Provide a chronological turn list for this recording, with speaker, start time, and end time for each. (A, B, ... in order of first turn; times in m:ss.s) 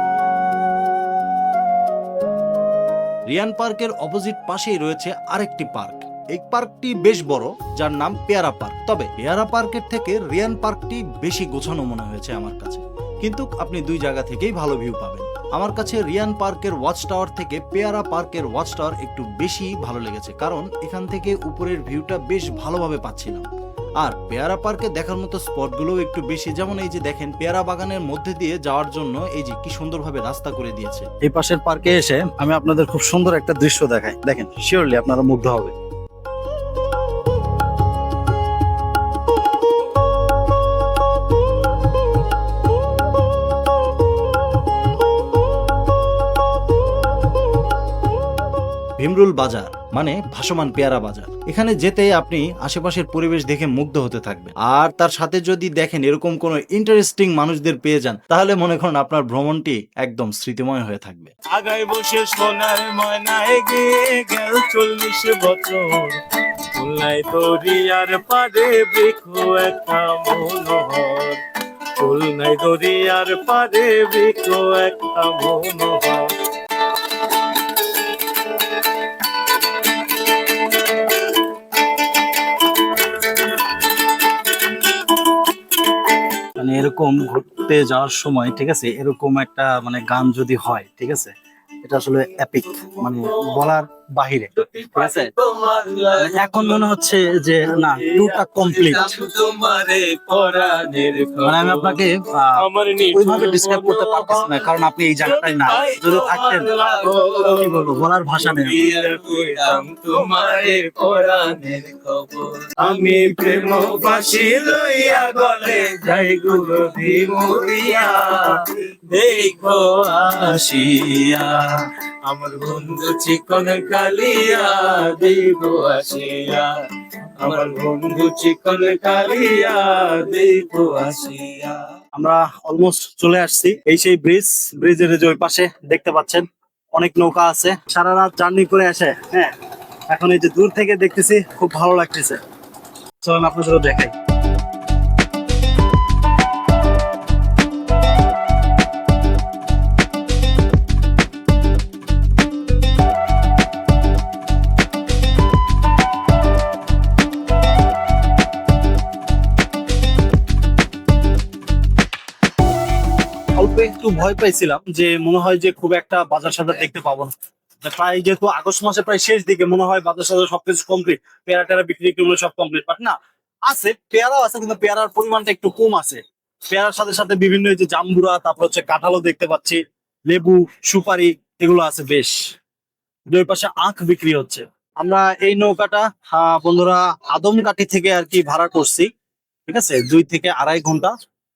0:03.3-0:23.5 A
0:24.0-0:31.1 A
0:31.2-0:35.7 B
0:49.0-1:01.3 A
1:01.5-1:06.2 C
1:06.8-1:11.4 C
1:12.0-1:16.4 C
1:26.6-1:35.3 B
1:34.8-1:36.8 C
1:36.2-1:39.2 B
1:38.0-1:42.0 C
1:41.4-1:46.7 B
1:42.6-1:44.7 C
1:45.2-2:06.8 C
1:47.4-1:48.8 B
2:07.4-2:11.9 C
2:12.2-2:19.5 B
2:20.1-2:22.4 B
2:23.2-2:24.1 B
2:43.6-2:47.3 B
2:47.8-2:53.2 B
2:53.7-3:02.4 B
3:03.3-3:09.1 B
3:09.7-3:11.1 B